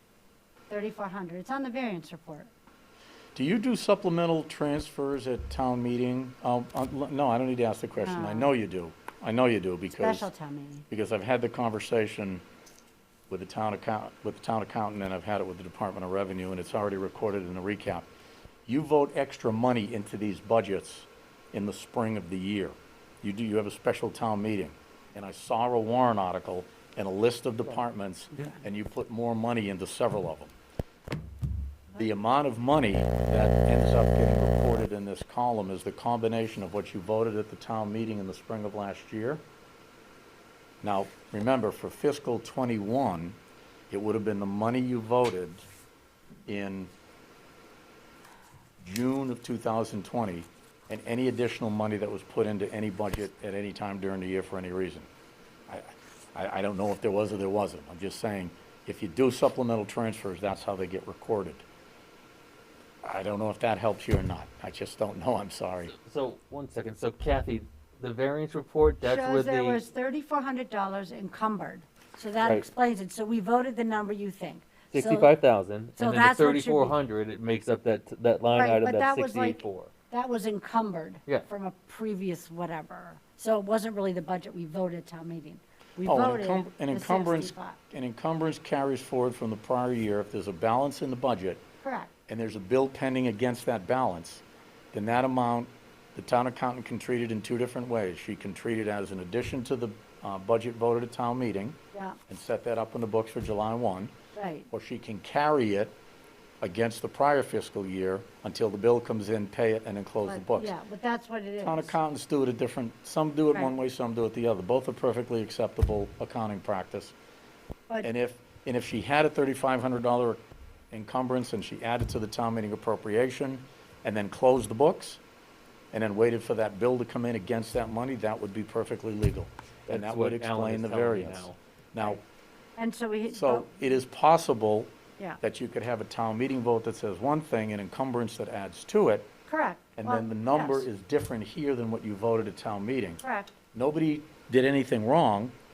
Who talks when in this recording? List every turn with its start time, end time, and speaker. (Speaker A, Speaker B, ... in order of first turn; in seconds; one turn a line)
Speaker A: 0.7-2.5
Speaker B: 3.3-10.3
Speaker A: 8.0-8.5
Speaker A: 9.9-10.8
Speaker B: 10.9-12.4
Speaker B: 13.3-18.1
Speaker B: 18.6-30.5
Speaker B: 31.9-39.4
Speaker B: 40.8-43.4
Speaker B: 43.9-45.6
Speaker B: 46.5-46.9
Speaker B: 48.8-55.1
Speaker B: 55.7-61.6
Speaker B: 63.0-65.9
Speaker C: 66.0-69.8
Speaker A: 69.0-75.3
Speaker C: 74.9-79.9
Speaker A: 76.0-77.0
Speaker A: 78.5-87.8
Speaker B: 86.0-91.6
Speaker A: 91.8-92.1
Speaker B: 92.3-101.8
Speaker A: 101.9-102.2
Speaker B: 102.3-104.1
Speaker A: 104.3-104.7
Speaker B: 104.7-105.9
Speaker B: 106.6-110.7
Speaker A: 110.2-111.9
Speaker B: 111.6-117.1
Speaker B: 118.0-120.4
Speaker B: 120.9-125.2
Speaker B: 125.9-132.2
Speaker C: 129.9-131.6
Speaker A: 132.8-133.7
Speaker B: 133.3-139.3
Speaker A: 139.5-140.8
Speaker B: 140.0-143.2
Speaker A: 143.2-143.5
Speaker B: 143.7-145.5